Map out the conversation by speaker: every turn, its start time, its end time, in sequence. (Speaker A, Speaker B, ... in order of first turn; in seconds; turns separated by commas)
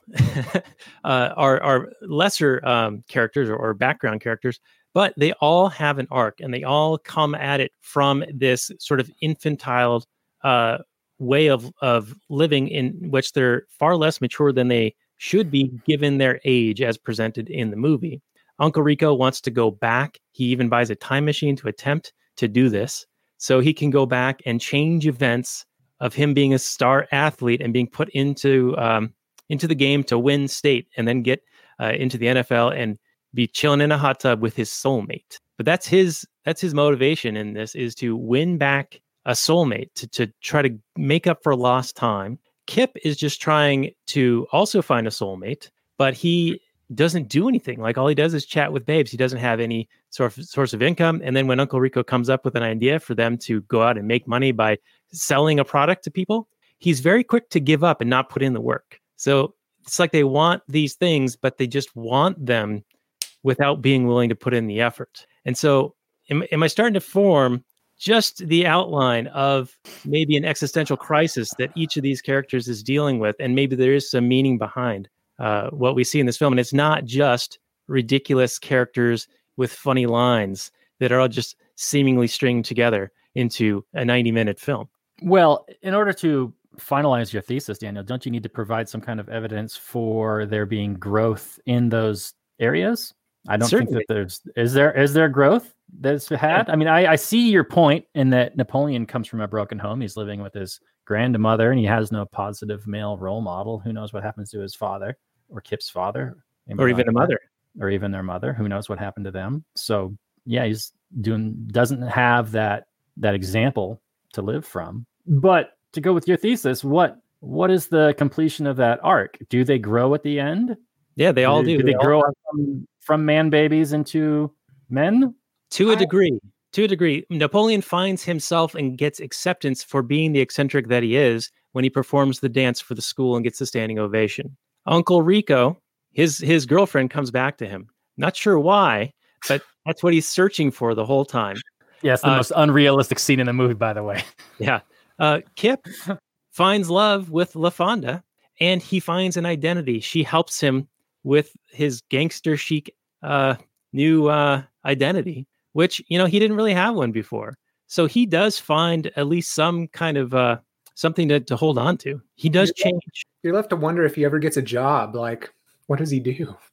Speaker A: 0.1-62.8, Speaker A: 63.4-84.9, Speaker B: 85.2-120.8, Speaker A: 93.6-94.0, Speaker A: 106.8-107.4, Speaker A: 121.2-122.3, Speaker B: 121.4-125.3, Speaker A: 125.7-141.6, Speaker B: 142.0-144.2, Speaker A: 144.6-145.8, Speaker A: 146.5-163.2, Speaker C: 162.6-162.8, Speaker C: 163.4-166.6